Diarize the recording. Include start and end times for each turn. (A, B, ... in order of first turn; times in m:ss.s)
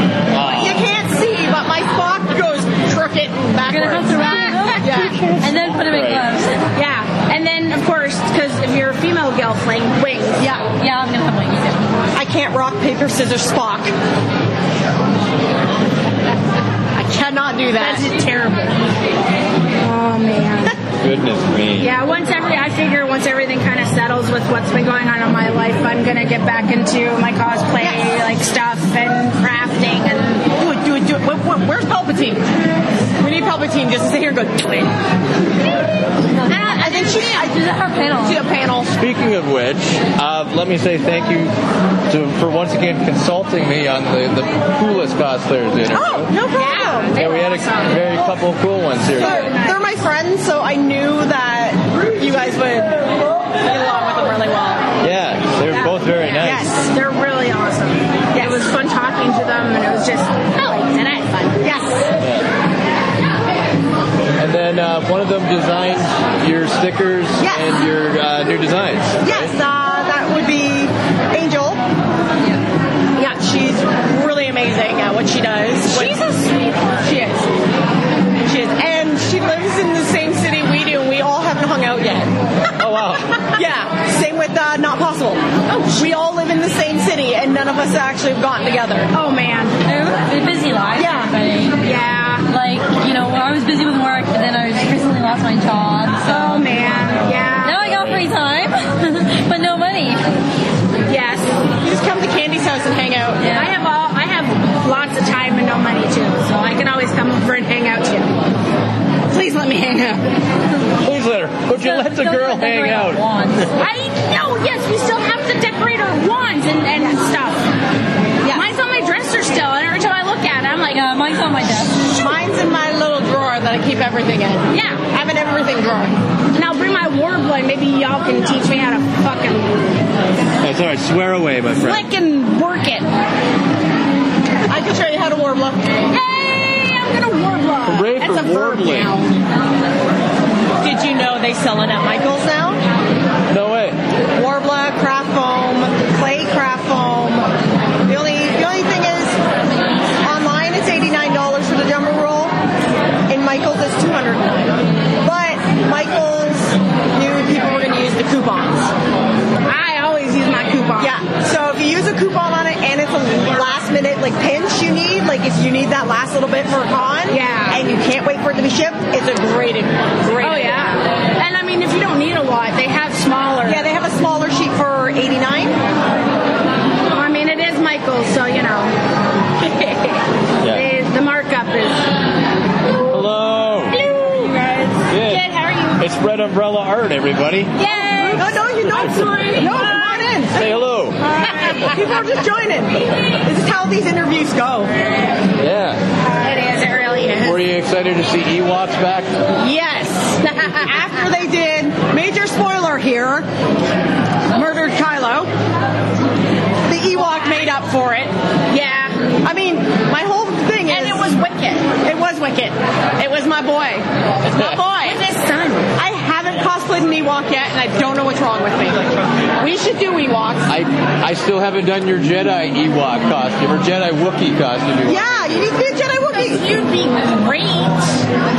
0:00.3-0:00.9 A
0:00.4-0:05.2 B
0:03.6-0:06.6 C
0:04.2-0:05.2 D
0:05.5-0:06.3 A
0:06.8-0:10.4 D
0:10.4-0:10.6 B
0:10.7-0:12.1 C
0:12.1-0:13.9 B
0:16.9-0:18.1 B
0:17.8-0:18.8 D
0:19.8-0:20.8 D
0:21.0-0:22.0 A
0:21.8-0:30.5 D
0:27.8-0:28.1 B
0:30.6-0:32.5 B
0:33.2-0:34.9 B
0:36.5-0:37.5 D
0:36.5-0:37.6 B
0:36.5-0:38.4 C
0:38.2-0:38.9 B
0:38.9-0:41.5 A
0:42.1-0:46.3 A
0:45.9-0:47.1 B
0:46.5-0:48.4 D
0:47.2-0:49.5 A
0:49.1-0:49.8 D
0:49.1-0:53.1 B
0:53.6-0:54.9 B
0:55.0-0:56.7 A
0:55.7-1:01.7 D
0:55.8-0:56.9 B
0:58.3-0:58.7 B
1:01.6-1:02.1 B
1:02.2-1:02.5 A
1:04.4-1:09.6 A
1:07.4-1:07.7 B
1:09.2-1:11.8 B
1:13.2-1:16.2 B
1:15.9-1:17.2 D
1:17.0-1:17.5 B
1:18.4-1:22.3 B
1:22.8-1:23.3 A
1:23.5-1:29.1 B
1:25.7-1:26.0 D
1:29.1-1:29.8 D
1:29.8-1:31.8 C
1:31.0-1:31.3 B
1:31.8-1:32.5 D
1:32.5-1:36.7 C
1:36.2-1:37.9 D
1:37.3-1:38.2 A
1:37.6-1:40.2 C
1:41.1-1:41.6 D
1:41.8-1:43.5 B
1:43.4-1:43.7 C
1:43.5-1:48.3 D
1:49.3-1:50.3 D
1:51.0-1:53.2 A
1:51.8-1:53.7 C
1:53.8-1:57.7 D
1:58.5-2:01.2 D
2:00.9-2:02.0 C
2:02.1-2:06.2 B
2:04.7-2:05.0 D
2:06.5-2:10.3 D
2:10.6-2:12.0 A
2:11.8-2:13.1 D
2:14.7-2:15.9 B
2:16.1-2:19.4 D
2:17.9-2:19.1 A
2:20.8-2:22.8 B
2:23.5-2:24.0 A
2:24.3-2:27.5 B
2:28.0-2:29.4 B
2:30.2-2:32.5 B
2:33.3-2:38.9 B
2:39.7-2:41.2 D
2:41.0-2:51.0 B
2:47.3-2:47.8 D
2:50.4-2:53.9 D
2:53.6-2:55.8 B
2:57.1-2:59.0 D
2:59.6-3:02.1 D
3:00.6-3:00.9 A
3:03.1-3:04.0 A
3:03.9-3:06.0 D
3:05.1-3:07.8 A
3:07.8-3:10.3 D
3:07.8-3:10.8 B
3:08.4-3:09.6 A
3:10.5-3:11.2 A
3:11.2-3:12.0 D
3:11.6-3:14.9 B
3:15.6-3:16.0 A
3:16.3-3:17.6 D
3:17.4-3:19.3 A
3:19.6-3:20.9 D
3:20.8-3:23.5 B
3:24.5-3:25.5 B
3:26.9-3:28.3 B
3:28.7-3:29.2 D
3:29.4-3:31.4 B
3:30.9-3:31.9 D
3:32.0-3:35.3 B
3:34.5-3:34.8 A
3:35.0-3:35.9 D
3:36.0-3:40.7 B
3:40.7-3:45.4 A
3:45.0-3:46.7 B
3:46.3-3:48.2 D